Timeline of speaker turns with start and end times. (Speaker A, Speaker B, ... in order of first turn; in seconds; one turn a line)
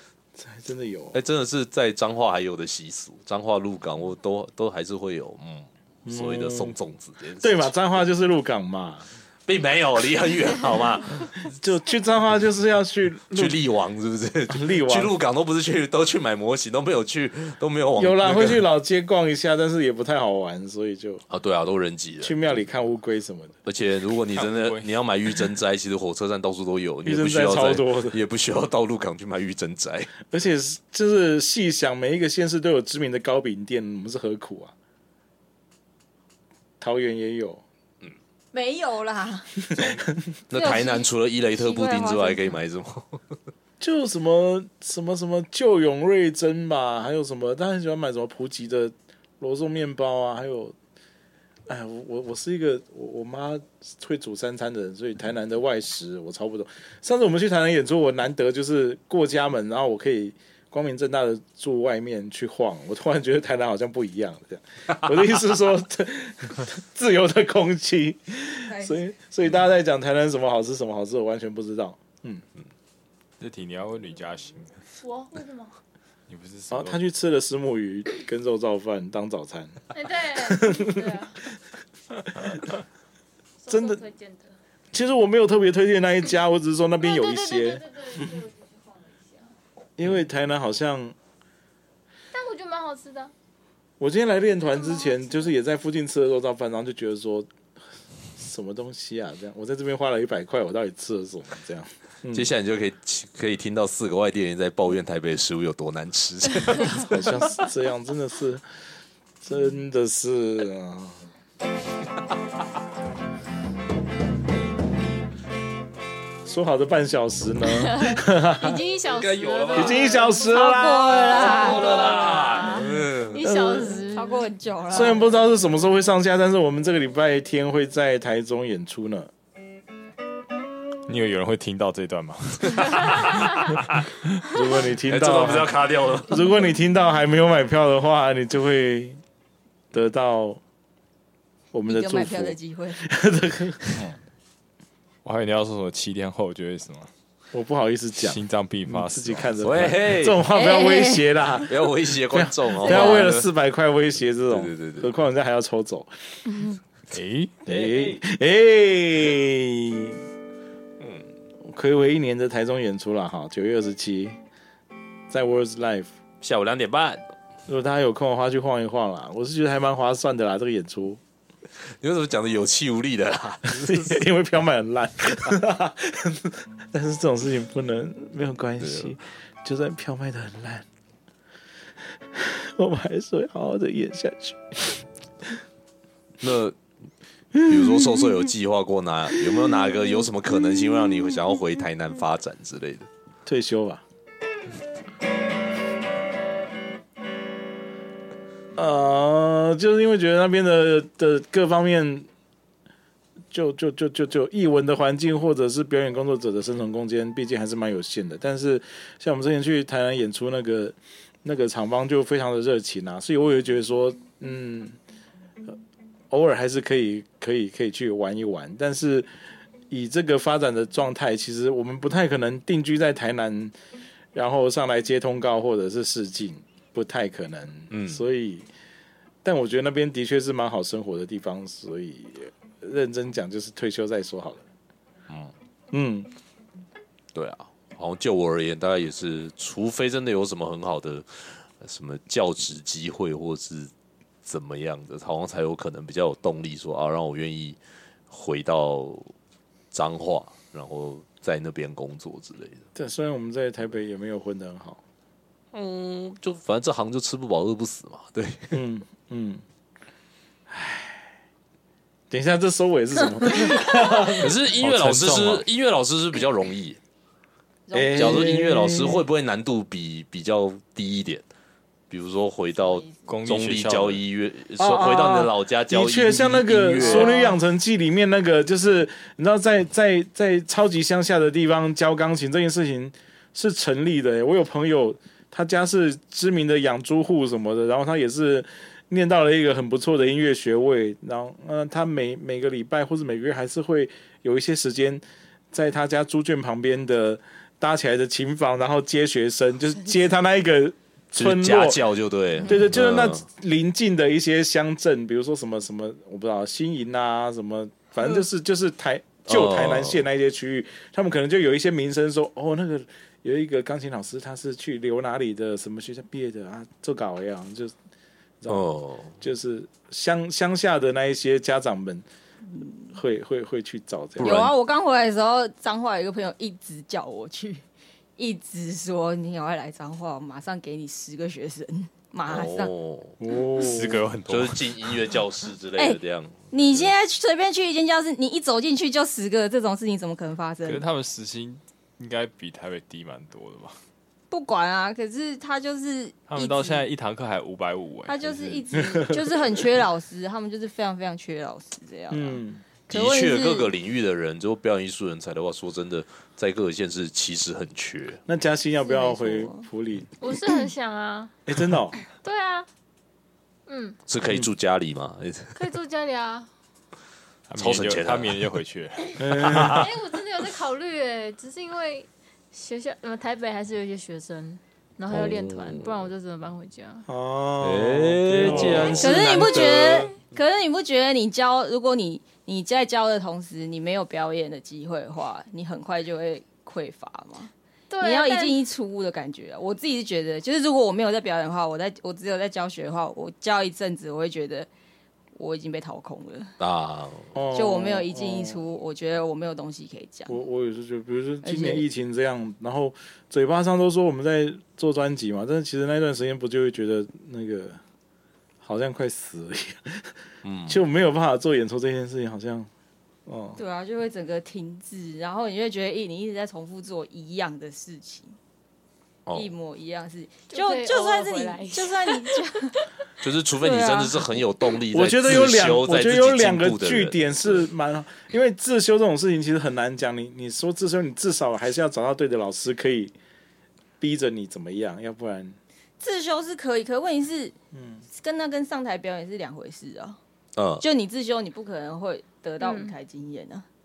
Speaker A: 0.3-1.1
Speaker B: 1.1-7.7
Speaker A: 6.0-6.8
Speaker A: 7.4-9.1
Speaker B: 9.5-11.4
Speaker A: 11.4-13.6
Speaker B: 13.3-18.6
Speaker A: 14.5-15.2
Speaker A: 18.0-21.2
Speaker B: 21.3-22.6
Speaker A: 22.2-23.6
Speaker B: 23.6-30.2
Speaker C: 24.4-24.9
Speaker A: 27.0-28.2
Speaker A: 30.3-34.7
Speaker A: 36.8-37.6
Speaker D: 38.5-39.5
Speaker A: 39.7-40.0
Speaker B: 40.5-43.2
Speaker D: 40.5-42.6
Speaker A: 43.8-50.7
Speaker A: 51.7-72.4
Speaker D: 68.6-69.0
Speaker C: 73.4-74.8
Speaker E: 75.0-75.7
Speaker C: 76.3-77.0
Speaker A: 76.7-81.5
Speaker E: 79.9-81.4
Speaker A: 82.1-82.7
Speaker E: 83.6-84.5
Speaker A: 83.7-84.0
Speaker A: 84.9-88.3
Speaker E: 87.0-89.5
Speaker A: 90.0-91.2
Speaker E: 92.3-93.3
Speaker A: 94.0-97.5
Speaker A: 98.3-102.5
Speaker B: 102.3-107.2
Speaker A: 106.9-108.6
Speaker A: 109.4-111.2
Speaker A: 116.4-118.8
Speaker E: 117.7-120.5
Speaker B: 119.1-120.2
Speaker A: 119.7-121.9
Speaker D: 120.5-122.0
Speaker E: 121.3-124.4
Speaker B: 121.4-123.4
Speaker A: 123.3-124.0
Speaker D: 124.0-125.2
Speaker A: 124.9-129.3
Speaker C: 131.1-134.4
Speaker A: 134.5-139.2
Speaker B: 135.1-136.4
Speaker A: 139.9-140.6
Speaker A: 141.7-144.1
Speaker D: 141.9-143.1
Speaker C: 145.2-147.1
Speaker A: 147.5-156.1
Speaker C: 148.1-149.5
Speaker B: 149.6-150.4
Speaker D: 150.4-151.4
Speaker B: 151.7-153.5
Speaker D: 152.8-153.3
Speaker B: 154.5-155.1
Speaker C: 157.1-157.6
Speaker A: 157.7-160.2
Speaker B: 157.7-158.2
Speaker B: 161.0-161.2
Speaker A: 161.6-164.3
Speaker A: 165.3-166.1
Speaker B: 166.4-167.2
Speaker A: 167.7-171.2
Speaker B: 172.0-174.2
Speaker A: 173.7-180.8
Speaker B: 178.8-179.2
Speaker A: 182.1-185.6
Speaker B: 186.4-186.8
Speaker A: 187.5-188.3
Speaker B: 187.5-193.1
Speaker A: 193.4-194.0
Speaker A: 198.8-202.3
Speaker A: 203.5-215.0
Speaker A: 216.3-219.3
Speaker A: 219.9-223.8
Speaker A: 224.3-228.7
Speaker B: 227.9-228.2
Speaker A: 229.4-234.7
Speaker A: 235.9-236.3
Speaker B: 237.3-243.9
Speaker B: 244.4-247.8
Speaker B: 248.3-249.3
Speaker B: 249.9-252.8
Speaker A: 252.9-255.0
Speaker B: 255.7-258.8
Speaker A: 258.7-259.6
Speaker A: 260.7-261.2
Speaker A: 262.3-264.5
Speaker B: 264.2-267.0
Speaker C: 264.8-265.6
Speaker D: 267.9-268.6
Speaker A: 267.9-269.2
Speaker B: 268.1-271.4
Speaker B: 272.1-277.4
Speaker C: 273.3-274.2
Speaker A: 274.8-302.0
Speaker D: 277.0-277.6
Speaker B: 301.3-303.4
Speaker A: 302.6-317.9
Speaker B: 309.5-310.2
Speaker A: 318.6-318.9
Speaker B: 318.7-319.3
Speaker A: 319.4-322.2
Speaker D: 322.7-323.1
Speaker A: 323.1-324.6
Speaker B: 324.4-324.7
Speaker D: 324.4-327.8
Speaker D: 328.4-332.9
Speaker B: 332.5-333.3
Speaker A: 333.4-334.2
Speaker C: 333.7-335.2
Speaker B: 334.5-337.1
Speaker D: 336.0-341.0
Speaker C: 340.8-344.0
Speaker D: 344.5-347.1
Speaker C: 346.5-348.9
Speaker D: 348.3-353.9
Speaker A: 349.1-349.4
Speaker A: 352.3-352.8
Speaker B: 353.1-358.4
Speaker A: 358.5-360.3
Speaker D: 359.0-359.9
Speaker E: 360.4-361.5
Speaker A: 361.7-362.2
Speaker E: 362.3-362.9
Speaker E: 363.9-364.2
Speaker B: 364.3-365.8
Speaker E: 365.8-366.7
Speaker C: 367.7-370.0
Speaker B: 367.8-368.8
Speaker A: 369.4-370.1
Speaker B: 369.7-370.0
Speaker E: 370.0-377.2
Speaker B: 375.3-376.3
Speaker A: 377.3-379.3
Speaker B: 377.8-380.3
Speaker C: 378.5-379.2
Speaker D: 379.2-394.9
Speaker E: 388.1-388.8
Speaker D: 395.5-396.7
Speaker B: 396.8-397.5
Speaker A: 397.5-398.8
Speaker D: 397.7-400.6
Speaker A: 400.5-408.0
Speaker D: 401.6-402.0
Speaker A: 408.8-410.3
Speaker B: 410.6-411.0
Speaker A: 410.9-412.9
Speaker A: 413.4-413.8
Speaker D: 413.7-418.6
Speaker B: 419.4-419.7
Speaker D: 419.5-423.0
Speaker E: 420.7-422.3
Speaker B: 423.4-427.9
Speaker D: 423.8-424.4
Speaker A: 425.1-433.3
Speaker A: 434.2-435.8
Speaker D: 436.2-437.7
Speaker A: 437.9-438.2
Speaker D: 438.4-440.4
Speaker B: 440.8-441.0
Speaker D: 441.0-443.9
Speaker E: 442.8-443.1